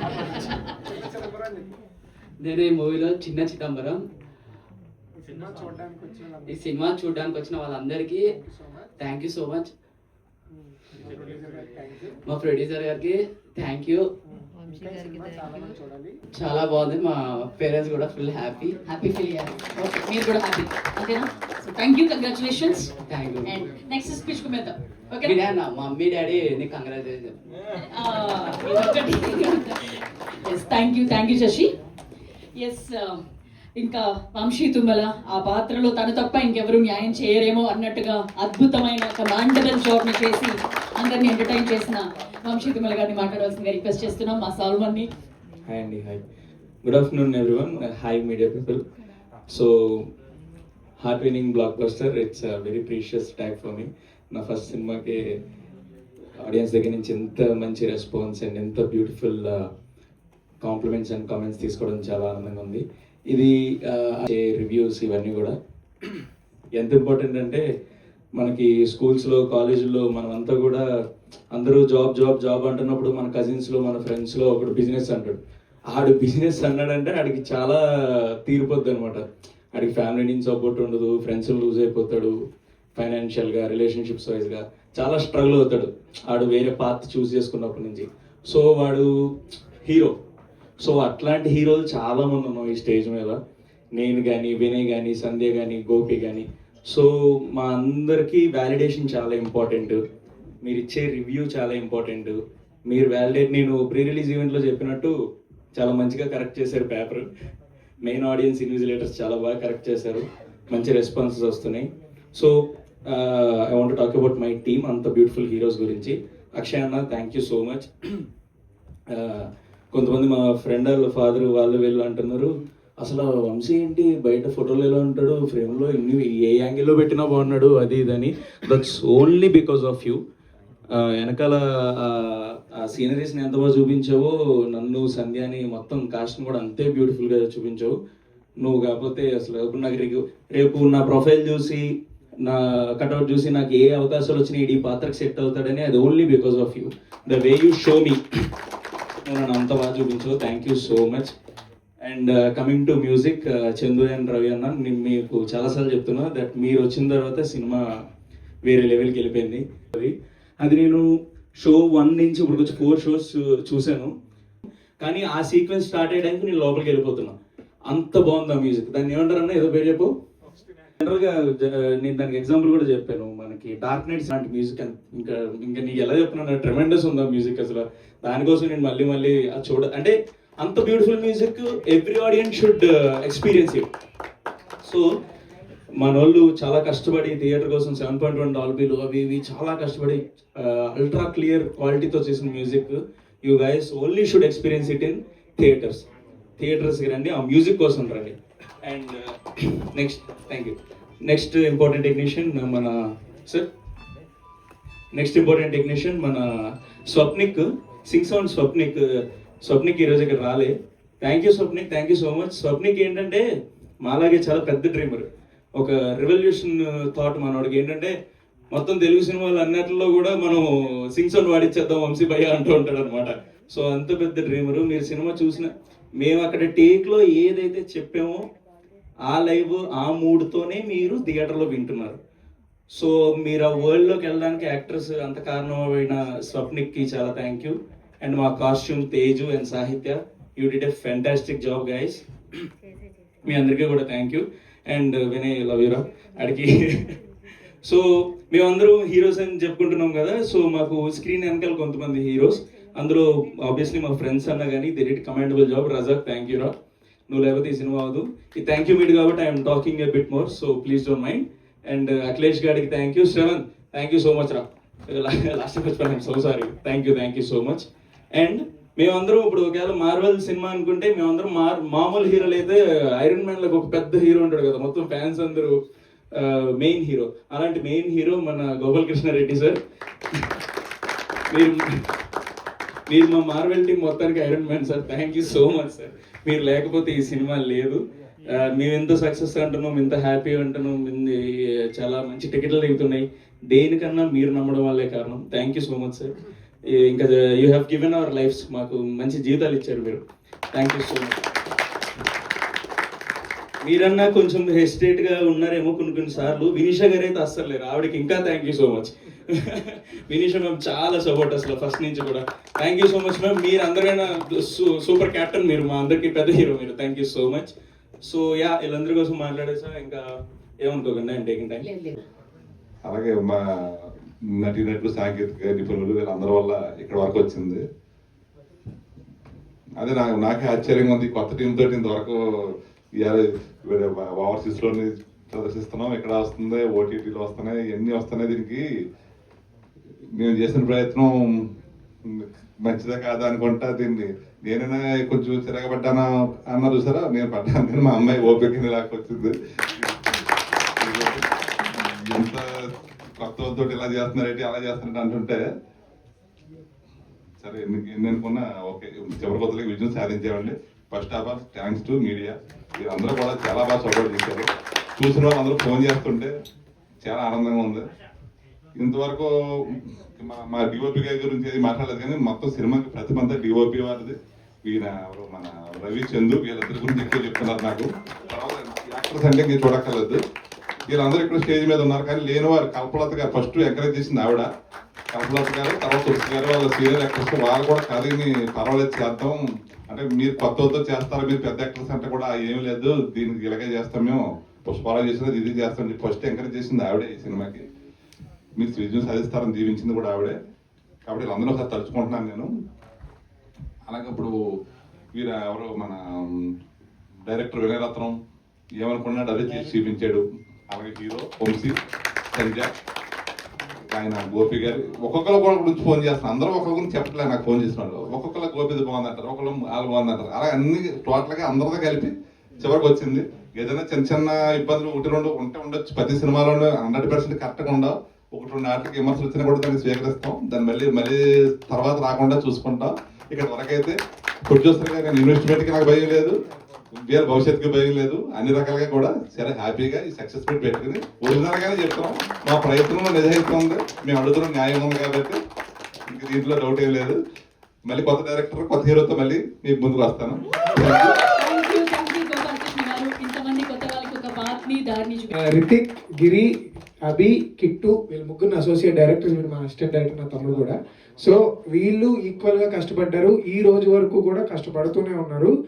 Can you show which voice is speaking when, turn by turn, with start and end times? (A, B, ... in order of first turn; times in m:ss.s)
0:00.8-0:01.7 A
0:02.4-0:04.0 B
0:05.3-0:06.5 A
0:06.5-0:08.4 B
0:08.4-0:08.8 A
0:09.0-0:09.7 B
0:11.0-0:12.1 A
0:12.3-0:14.1 B
0:14.7-0:16.2 A
0:16.3-0:18.8 B
0:18.8-0:22.9 C
0:23.1-0:23.7 B
0:23.4-0:25.4 C
0:25.2-0:27.3 B
0:27.8-0:31.7 C
0:32.6-0:33.2 C
0:33.8-0:45.1 C
0:45.7-0:46.2 D
0:46.8-0:48.8 D
0:49.5-0:50.0 D
0:51.0-0:55.2 D
0:56.4-0:59.6 D
1:00.6-1:05.5 D
1:06.8-1:07.6 D
1:08.4-1:10.8 D
1:11.6-1:15.4 D
1:15.9-1:17.8 D
1:18.5-1:19.2 D
1:19.7-1:22.3 D
1:23.0-1:29.1 D
1:29.9-1:30.1 D
1:30.8-1:33.4 D
1:34.0-1:40.0 D
1:40.6-1:42.4 D
1:42.9-1:45.1 D
1:45.8-1:47.3 D
1:48.0-1:52.5 D
1:53.1-1:58.2 D
1:59.1-2:02.5 D
2:03.0-2:10.2 D
2:11.0-2:17.9 D
2:18.6-2:21.8 D
2:22.4-2:28.2 D
2:29.2-2:31.3 D
2:32.0-2:37.8 D
2:38.6-2:41.0 D
2:41.6-2:44.1 D
2:45.0-2:47.4 D
2:47.9-2:50.1 D
2:51.0-3:03.9 D
3:06.0-3:16.0 D
3:16.6-3:22.9 D
3:25.2-3:26.4 D
3:27.1-3:29.0 D
3:29.6-3:33.4 D
3:34.0-3:35.2 D
3:35.8-3:38.1 D
3:38.7-3:48.4 D
3:49.3-3:52.2 D
3:53.0-4:02.2 D
4:03.5-4:07.1 D
4:07.8-4:16.7 D
4:17.3-4:35.8 D
4:36.4-4:39.8 D
4:41.5-4:41.8 D
4:43.1-4:48.0 D
4:48.7-4:51.4 D
4:51.9-4:56.3 D
4:56.9-5:00.2 D
5:00.7-5:01.4 D
5:03.8-5:17.7 D
5:18.2-5:20.2 D
5:20.8-5:21.9 D
5:21.8-5:22.1 C
5:23.0-5:27.8 E
5:30.0-5:38.8 E
5:40.4-5:41.4 E
5:42.3-5:50.2 E
5:51.0-5:55.7 E
5:57.6-6:04.7 E
6:05.2-6:06.5 E
6:07.2-6:08.0 E
6:09.0-6:20.4 E
6:21.1-6:24.7 E
6:25.3-6:29.6 E
6:30.1-6:37.8 E
6:38.8-6:40.6 E
6:41.3-6:42.7 E
6:44.1-6:44.5 E
6:45.3-6:46.7 E
6:47.5-6:48.4 E
6:49.0-6:52.0 E
6:52.5-6:52.9 E
6:54.1-7:16.6 E
7:17.1-7:25.6 E
7:26.3-7:27.4 E
7:28.1-7:31.3 E
7:31.1-7:35.5 C
7:35.6-7:36.7 A
7:37.3-7:45.7 A